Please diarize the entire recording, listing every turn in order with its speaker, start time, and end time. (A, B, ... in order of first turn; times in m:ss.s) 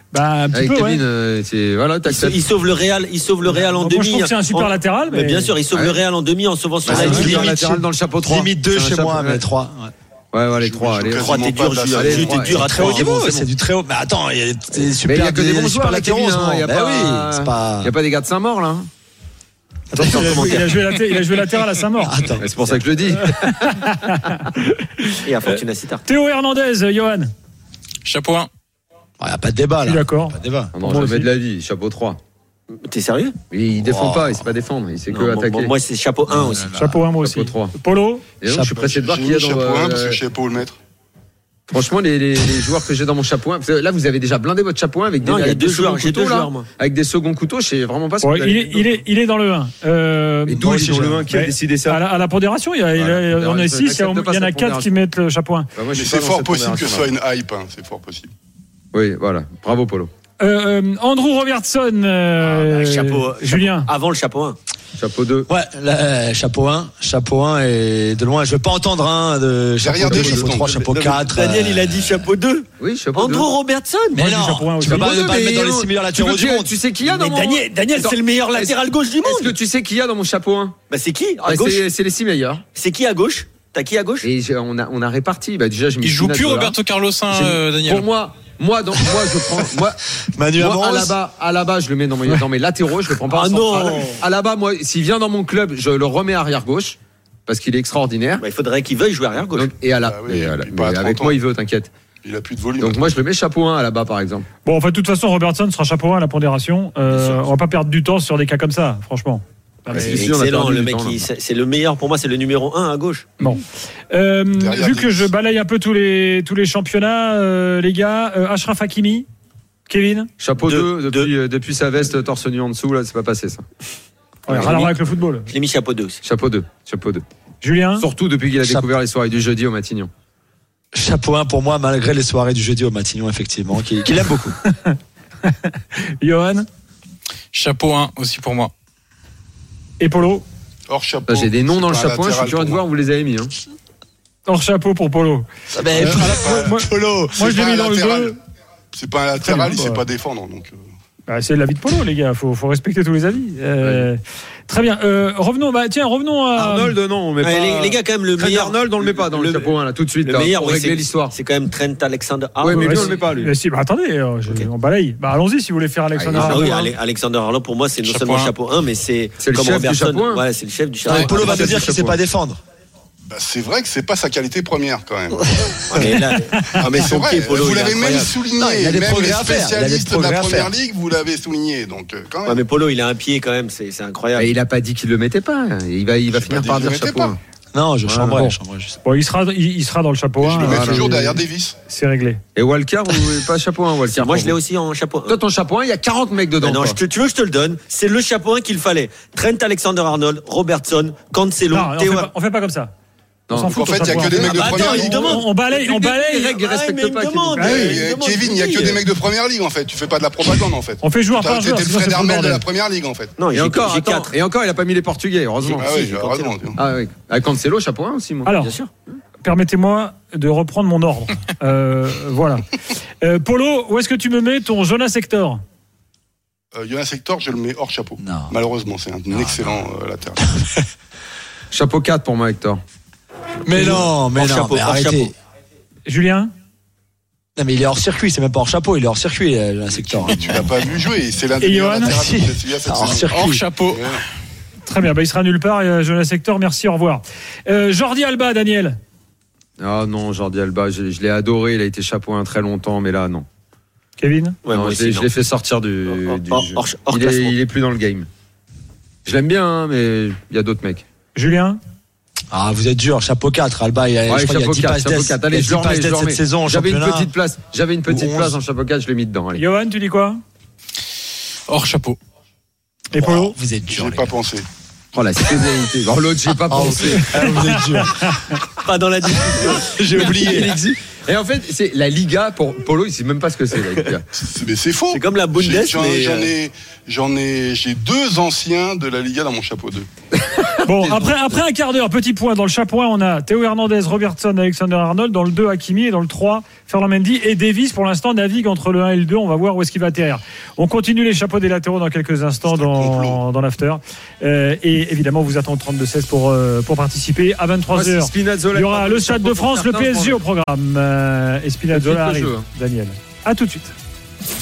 0:00.1-0:01.0 A
0:00.5-0:02.4 B
0:02.1-0:07.5 C
0:03.4-0:05.5 A
0:05.7-0:06.0 B
0:06.8-0:09.4 B
0:06.8-0:09.9 D
0:10.3-0:11.3 B
0:10.6-0:12.6 E
0:11.1-0:13.1 C
0:11.9-0:13.5 B
0:12.6-0:17.9 D
0:14.7-0:18.9 B
0:19.9-0:22.2 A
0:19.9-0:20.6 D
0:20.0-0:20.6 B
0:22.0-0:22.6 D
0:22.4-0:23.7 B
0:23.1-0:27.3 A
0:25.3-0:26.0 C
0:28.0-0:28.5 F
0:29.2-0:30.7 D
0:29.8-0:31.3 A
0:30.7-0:32.2 B
0:32.7-0:33.4 C
0:33.5-0:35.8 B
0:33.8-0:34.5 D
0:35.1-0:36.7 C
0:36.3-0:37.0 D
0:36.7-0:38.2 A
0:37.2-0:37.7 B
0:38.4-0:40.2 B
0:38.5-0:38.9 D
0:38.8-0:40.8 E
0:41.7-0:48.9 B
0:45.2-0:46.7 C
0:48.2-0:55.7 A
0:50.5-0:52.0 B
0:53.0-0:55.0 B
0:55.8-0:57.1 B
0:55.9-0:58.3 E
0:58.9-1:00.1 B
1:00.4-1:03.9 A
1:02.4-1:04.6 C
1:05.0-1:05.5 B
1:05.5-1:12.3 D
1:09.8-1:11.3 E
1:10.1-1:10.4 B
1:11.2-1:14.2 C
1:12.8-1:13.5 B
1:14.1-1:16.8 D
1:14.2-1:15.2 A
1:14.8-1:20.8 B
1:17.0-1:19.5 C
1:20.9-1:21.8 C
1:21.4-1:22.6 B
1:22.8-1:24.3 C
1:24.2-1:26.8 B
1:26.0-1:28.1 F
1:27.3-1:30.0 B
1:30.3-1:31.2 D
1:30.6-1:38.4 B
1:33.3-1:34.2 C
1:38.4-1:39.7 C
1:39.5-1:41.9 B
1:40.0-1:41.4 E
1:42.2-1:43.2 E
1:42.8-1:44.5 B
1:44.6-1:50.2 A
1:49.9-1:51.3 B
1:50.0-1:53.6 C
1:53.4-1:59.3 A
1:54.5-1:55.3 E
1:59.9-2:00.3 A
2:00.4-2:03.6 B
2:00.6-2:01.3 C
2:04.5-2:05.5 A
2:04.5-2:04.9 B
2:05.5-2:06.2 C
2:06.2-2:07.2 B
2:07.6-2:08.1 A
2:08.0-2:10.1 B
2:08.6-2:08.9 D
2:10.9-2:14.6 D
2:15.5-2:16.7 A
2:17.5-2:18.7 F
2:20.0-2:20.4 A
2:20.9-2:22.8 E
2:21.3-2:23.5 B
2:24.5-2:28.4 A
2:25.8-2:27.4 D
2:25.8-2:26.7 E
2:27.3-2:28.4 E
2:28.9-2:30.8 E
2:29.4-2:30.0 A
2:31.3-2:37.0 A
2:33.8-2:34.1 B
2:36.6-2:41.4 B
2:37.4-2:43.1 C
2:42.6-2:43.5 B
2:42.8-2:46.9 A
2:46.2-2:46.8 B
2:46.3-2:51.9 C
2:48.0-2:48.5 F
2:49.4-2:50.4 B
2:51.0-2:52.6 D
2:51.1-2:52.2 B
2:53.3-2:55.8 E
2:55.9-2:58.4 C
2:56.6-3:02.6 E
2:58.6-3:00.7 D
3:02.4-3:04.5 C
3:04.4-3:07.4 B
3:06.3-3:07.4 E
3:07.7-3:09.0 D
3:08.1-3:08.5 B
3:08.4-3:12.4 A
3:10.4-3:11.8 E
3:10.6-3:11.3 B
3:12.6-3:14.6 B
3:14.1-3:15.4 C
3:15.3-3:17.0 B
3:16.6-3:22.3 C
3:21.7-3:22.9 A
3:23.5-3:23.8 B
3:23.5-3:26.5 A
3:23.6-3:25.5 E
3:24.3-3:25.5 C
3:25.7-3:27.9 B
3:26.3-3:29.1 C
3:27.6-3:28.0 A
3:27.6-3:33.4 E
3:31.0-3:32.6 A
3:33.4-3:34.3 C
3:33.5-3:35.9 B
3:35.6-3:36.6 C
3:35.8-3:36.8 E
3:36.8-3:38.8 B
3:38.4-3:38.8 A
3:38.6-3:38.9 C
3:39.4-3:42.7 A
3:43.2-3:45.6 A
3:46.8-3:50.5 E
3:48.2-3:48.5 D
3:49.3-3:49.8 D
3:51.7-3:52.8 B
3:53.6-3:55.3 D
3:53.7-3:55.3 C
3:56.1-3:56.5 A
3:57.6-4:00.7 D
4:00.0-4:00.6 B
4:00.2-4:04.2 E
4:01.6-4:02.2 A
4:02.1-4:03.6 D
4:03.3-4:04.1 F
4:04.8-4:09.0 A
4:09.8-4:13.5 B
4:14.2-4:14.6 A
4:14.7-4:15.3 C
4:14.7-4:18.3 B
4:16.1-4:17.6 C
4:19.3-4:21.0 B
4:21.4-4:21.8 A
4:22.5-4:27.3 D
4:24.3-4:29.6 B
4:28.1-4:28.6 D
4:29.6-4:30.4 A
4:31.7-4:32.2 F
4:33.1-4:33.5 A
4:33.1-4:34.3 D
4:33.9-4:34.7 E
4:35.1-4:37.6 B
4:36.7-4:38.2 D
4:37.5-4:38.3 A
4:38.8-4:40.5 C
4:39.8-4:40.8 D
4:40.2-4:44.2 B
4:44.4-4:50.1 E
4:45.1-4:46.5 C
4:50.8-5:13.9 A
5:02.6-5:03.4 E
5:07.9-5:10.4 B
5:11.9-5:12.7 B